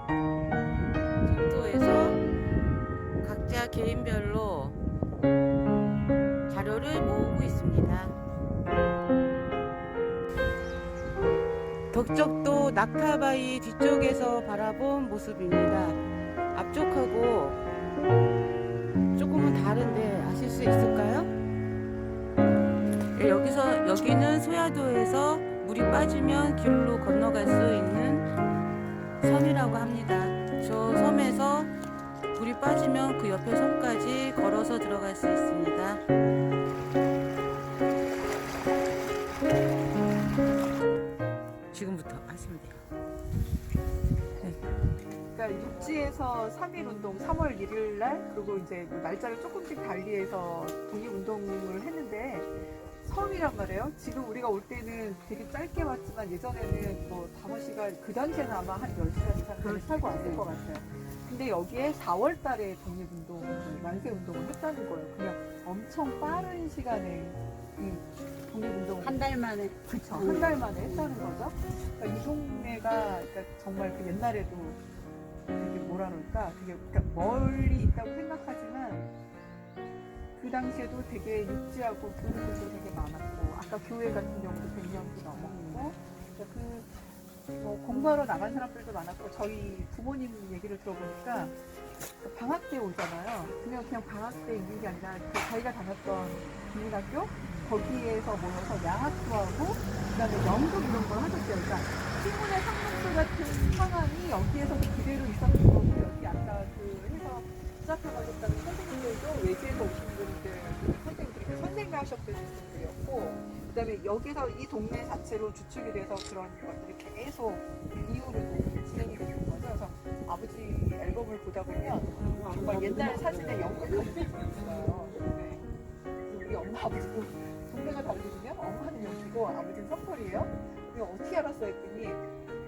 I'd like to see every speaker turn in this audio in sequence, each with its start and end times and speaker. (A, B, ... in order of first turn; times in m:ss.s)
0:01.2-0:02.2 A
0:03.2-0:04.8 A
0:06.5-0:08.1 A
0:11.9-0:16.0 A
0:16.5-0:17.6 A
0:19.2-0:21.3 A
0:23.2-0:28.3 A
0:29.2-0:31.7 A
0:32.3-0:36.0 A
0:41.7-0:42.8 A
0:45.3-1:09.2 B
0:59.6-1:00.5 C
1:09.0-1:11.2 C
1:09.9-1:14.8 B
1:15.5-1:19.1 B
1:20.4-1:27.0 B
1:25.4-1:25.9 C
1:27.6-1:31.6 B
1:32.2-2:05.7 B
2:06.3-2:12.2 B